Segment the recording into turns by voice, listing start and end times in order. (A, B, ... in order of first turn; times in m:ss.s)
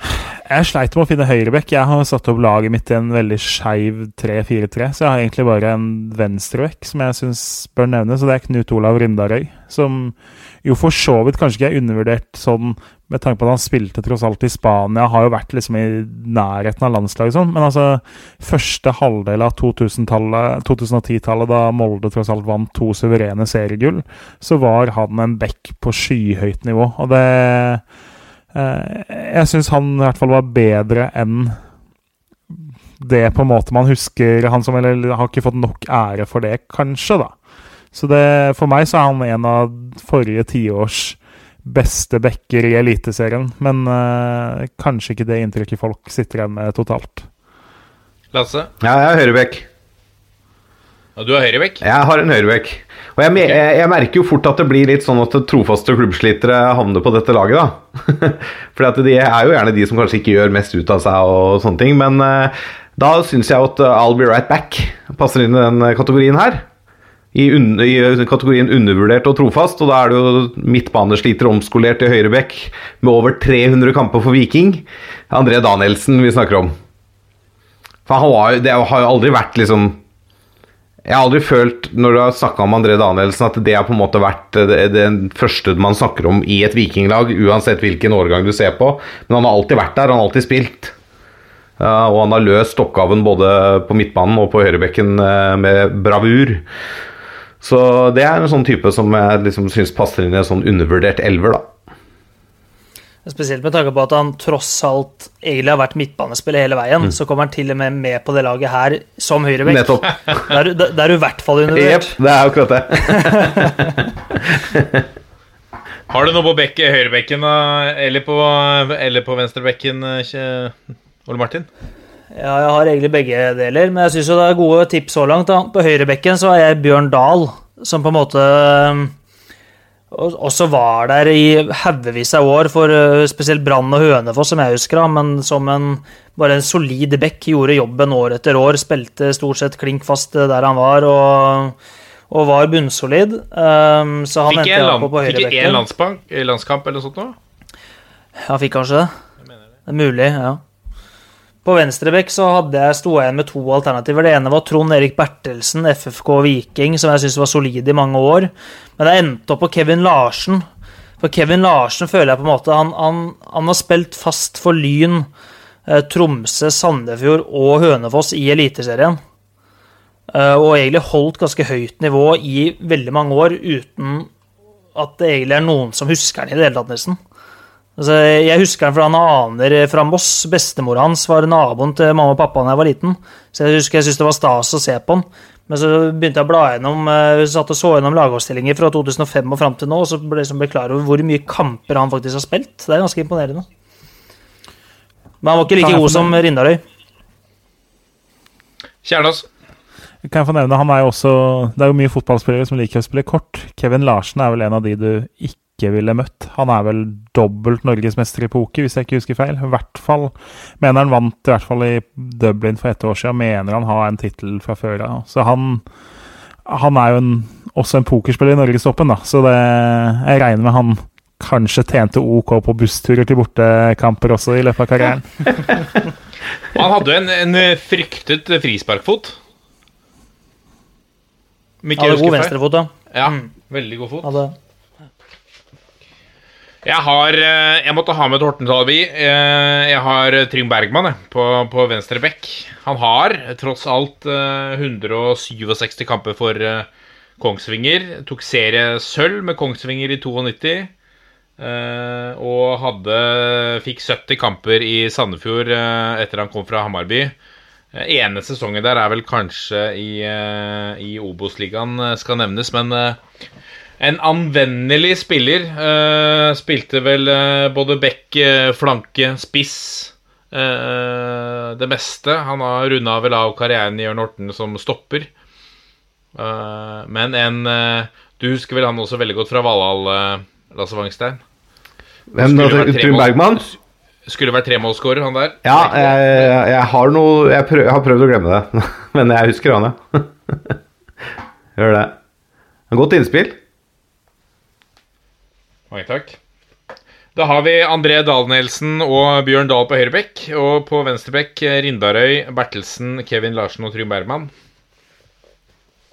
0:00.4-0:27.8 A
0:28.5-0:31.6 A
0:33.0-0:37.3 A
0:37.9-0:47.3 A
0:48.3-0:48.7 B
0:48.8-0:49.7 C
0:51.2-0:51.8 B
0:51.8-1:06.7 C
1:07.3-1:16.7 C
1:18.1-1:20.0 C
1:21.0-1:30.9 C
1:31.8-1:36.6 C
1:37.6-1:41.7 C
1:43.2-1:52.2 D
1:49.6-1:50.4 C
1:51.7-1:55.1 C
1:53.3-1:53.9 D
1:56.1-2:01.7 B
2:02.3-2:09.1 D
2:10.1-2:21.8 D
2:22.3-2:25.8 D
2:24.5-2:27.4 B
2:28.5-2:29.1 D
2:29.9-2:30.6 D
2:31.6-2:40.6 D
2:41.2-2:45.3 D
2:45.9-2:49.2 D
2:50.3-2:54.3 D
2:55.0-2:57.2 D
2:58.0-3:13.7 D
3:15.4-3:16.8 D
3:15.8-3:16.4 A
3:19.0-3:19.5 B
3:20.3-3:35.8 A
3:36.7-3:45.8 A
3:46.7-3:49.4 B
3:51.8-3:52.6 B
3:52.0-3:53.5 D
3:53.1-3:54.3 B
3:54.2-3:54.5 D
3:56.8-4:06.9 B
4:07.4-4:10.9 B
4:11.6-4:17.3 B
4:17.9-4:23.2 B
4:24.0-4:35.3 B
4:36.4-4:41.4 B
4:42.3-4:43.6 C
4:42.4-4:46.5 B
4:45.6-4:50.8 C
4:51.8-4:52.2 C
4:52.9-4:53.6 C
4:55.9-4:56.4 B
4:57.4-5:04.5 B